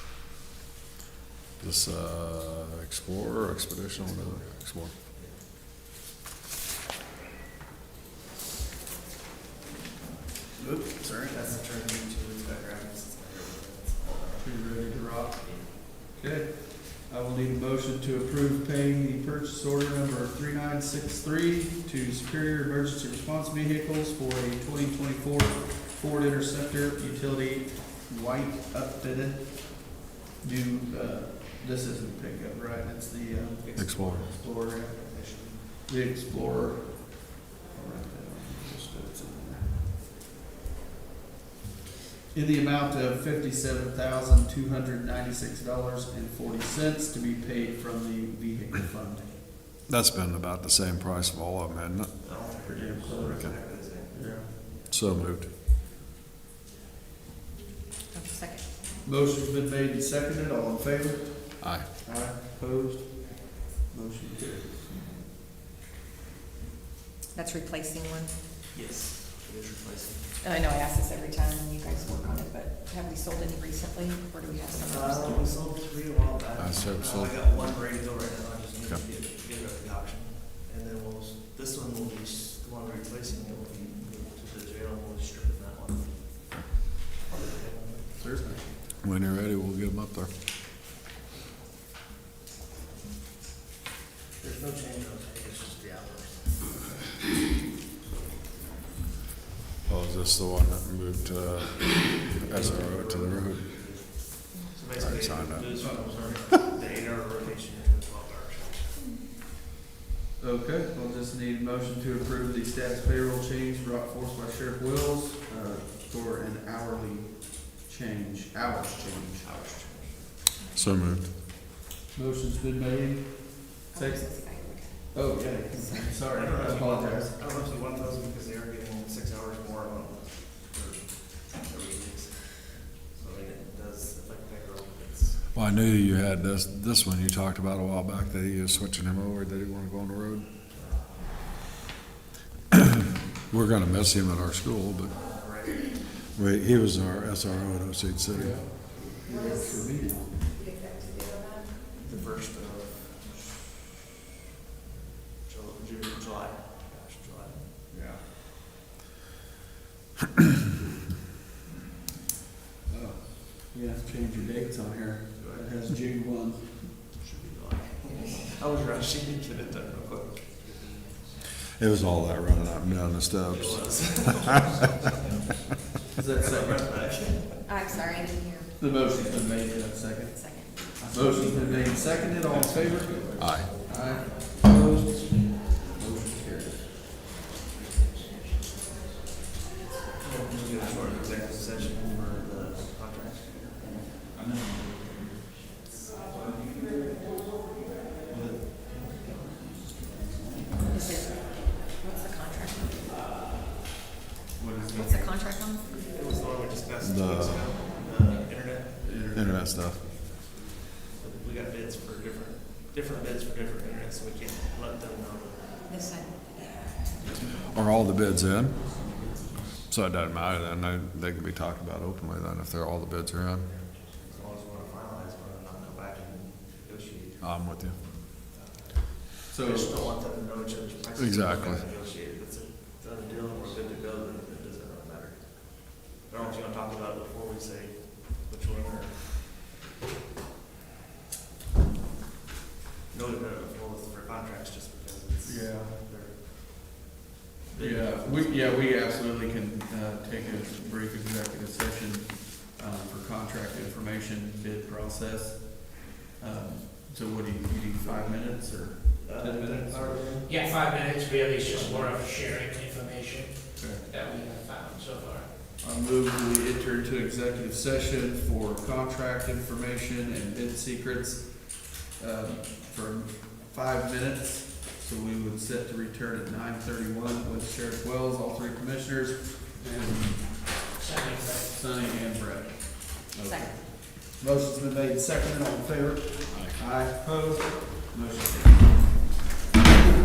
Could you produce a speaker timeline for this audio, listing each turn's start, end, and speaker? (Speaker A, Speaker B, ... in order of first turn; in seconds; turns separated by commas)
Speaker A: 1.6-4.9, Speaker B: 4.0-4.4, Speaker C: 5.1-5.4, Speaker B: 10.6-11.6, Speaker C: 11.0-14.9, Speaker B: 14.4-40.0, Speaker C: 33.6-35.6, Speaker A: 33.8-34.3, Speaker B: 42.3-49.4, Speaker A: 49.9-52.2, Speaker C: 52.2-54.9, Speaker B: 52.6-54.6, Speaker A: 53.3-53.6, Speaker A: 54.9-55.5, Speaker D: 58.1-58.7, Speaker B: 59.0-65.0, Speaker A: 61.6-61.9, Speaker D: 67.3-68.4, Speaker C: 68.7-70.3, Speaker D: 70.4-75.5, Speaker C: 74.9-88.7, Speaker A: 76.6-77.4, Speaker B: 88.2-88.7, Speaker A: 89.0-90.3, Speaker C: 94.4-97.1, Speaker A: 99.9-104.2, Speaker C: 102.4-108.9, Speaker A: 104.9-106.3, Speaker B: 105.8-106.6, Speaker B: 110.4-119.5, Speaker C: 119.4-120.3, Speaker A: 120.8-121.3, Speaker B: 122.1-127.4, Speaker D: 123.9-126.2, Speaker C: 126.3-135.5, Speaker A: 135.5-140.5, Speaker C: 140.7-141.4, Speaker A: 143.5-145.3, Speaker C: 145.2-146.1, Speaker A: 146.3-148.6, Speaker B: 148.3-150.4, Speaker D: 149.3-151.9, Speaker C: 152.0-153.5, Speaker C: 154.9-158.2, Speaker B: 162.9-166.9, Speaker C: 165.4-165.7, Speaker C: 167.2-170.5, Speaker E: 170.5-171.4, Speaker A: 171.8-174.2, Speaker C: 173.5-175.5, Speaker E: 174.4-176.6, Speaker B: 176.1-176.8, Speaker C: 176.4-177.7, Speaker D: 177.6-178.8, Speaker B: 178.8-186.9, Speaker D: 180.3-180.8, Speaker C: 181.0-181.9, Speaker E: 181.1-184.6, Speaker C: 182.5-184.2, Speaker A: 183.4-183.7, Speaker E: 187.6-191.8, Speaker C: 190.2-194.1, Speaker E: 194.3-195.2, Speaker B: 198.3-199.0, Speaker B: 199.8-200.1, Speaker D: 200.9-203.1, Speaker B: 204.6-205.4, Speaker D: 204.9-205.9, Speaker C: 206.1-209.3, Speaker A: 207.0-207.6, Speaker B: 209.0-210.4, Speaker A: 209.3-210.0, Speaker C: 211.2-215.9, Speaker D: 215.9-217.3, Speaker A: 217.7-218.8, Speaker E: 219.3-219.6, Speaker A: 219.9-223.7, Speaker E: 223.6-224.2, Speaker C: 224.2-239.2, Speaker A: 227.4-228.0, Speaker B: 229.5-230.1, Speaker A: 231.2-231.8, Speaker C: 243.1-247.0, Speaker B: 245.4-246.0, Speaker C: 247.7-248.9, Speaker B: 247.8-260.4, Speaker C: 259.2-262.1, Speaker E: 260.5-265.5, Speaker B: 263.8-264.1, Speaker B: 265.8-280.9, Speaker E: 281.0-281.7, Speaker B: 281.7-289.2, Speaker D: 283.4-283.8, Speaker A: 286.5-286.8